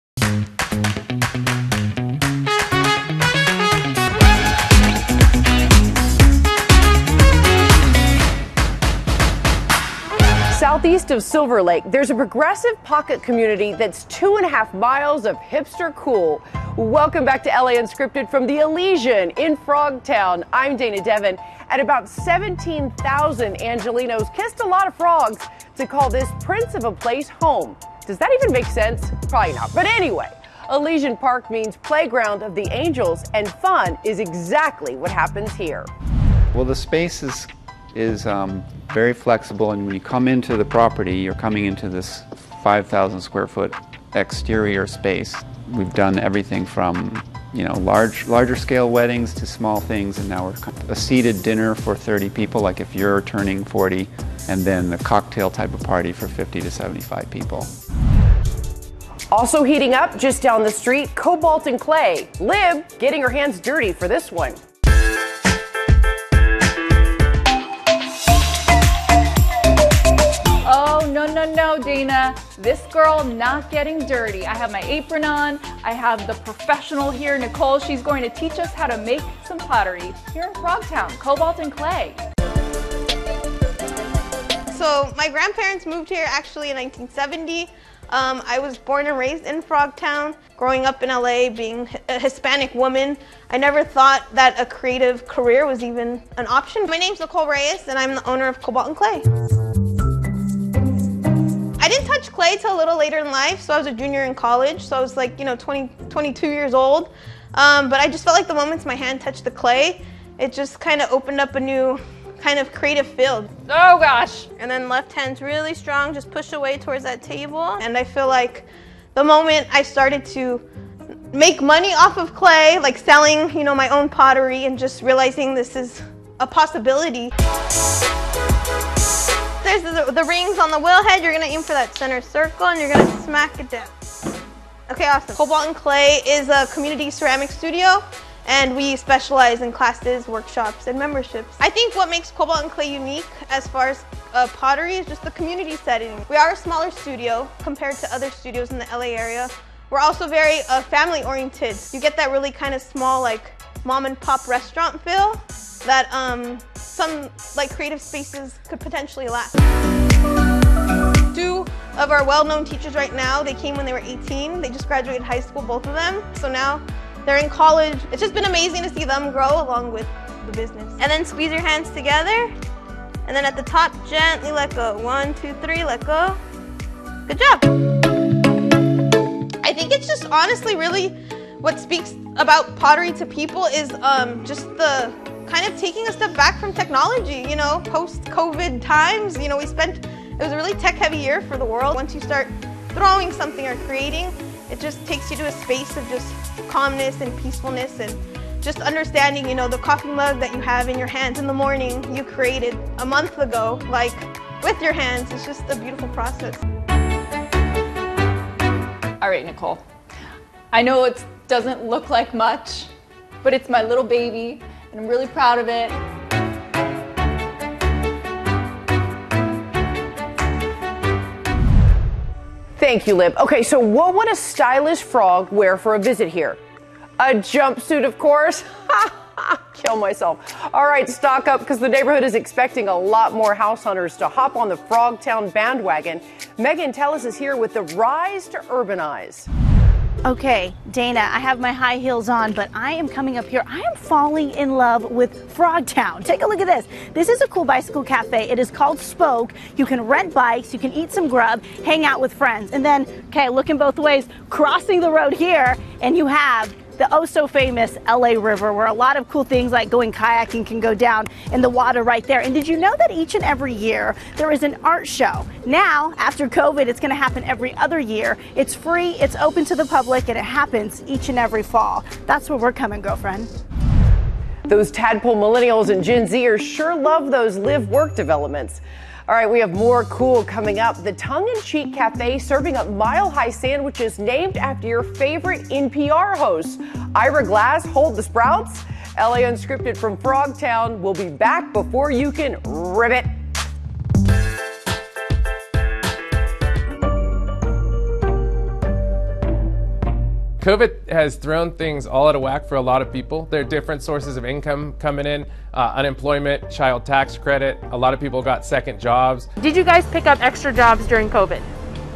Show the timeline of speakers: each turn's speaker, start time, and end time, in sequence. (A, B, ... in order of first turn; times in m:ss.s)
0:10.5-0:35.9 A
0:36.5-0:57.7 B
0:59.3-1:04.6 A
1:10.6-1:22.2 C
1:24.7-1:39.2 D
1:41.8-1:53.5 D
1:53.7-1:54.5 C
1:54.6-2:00.6 D
2:01.3-2:07.3 D
2:09.6-2:13.9 D
2:14.9-2:39.6 D
2:41.3-2:52.5 D
2:53.2-2:56.4 D
2:57.3-2:57.6 D
2:59.6-3:26.6 D
3:29.2-3:29.8 C
3:30.7-3:32.9 C
3:33.4-3:36.0 C
3:42.8-3:46.6 A
3:47.2-3:59.5 A
4:00.2-4:33.5 E
4:34.7-4:53.3 A
5:00.6-5:09.5 F
5:09.6-5:11.7 G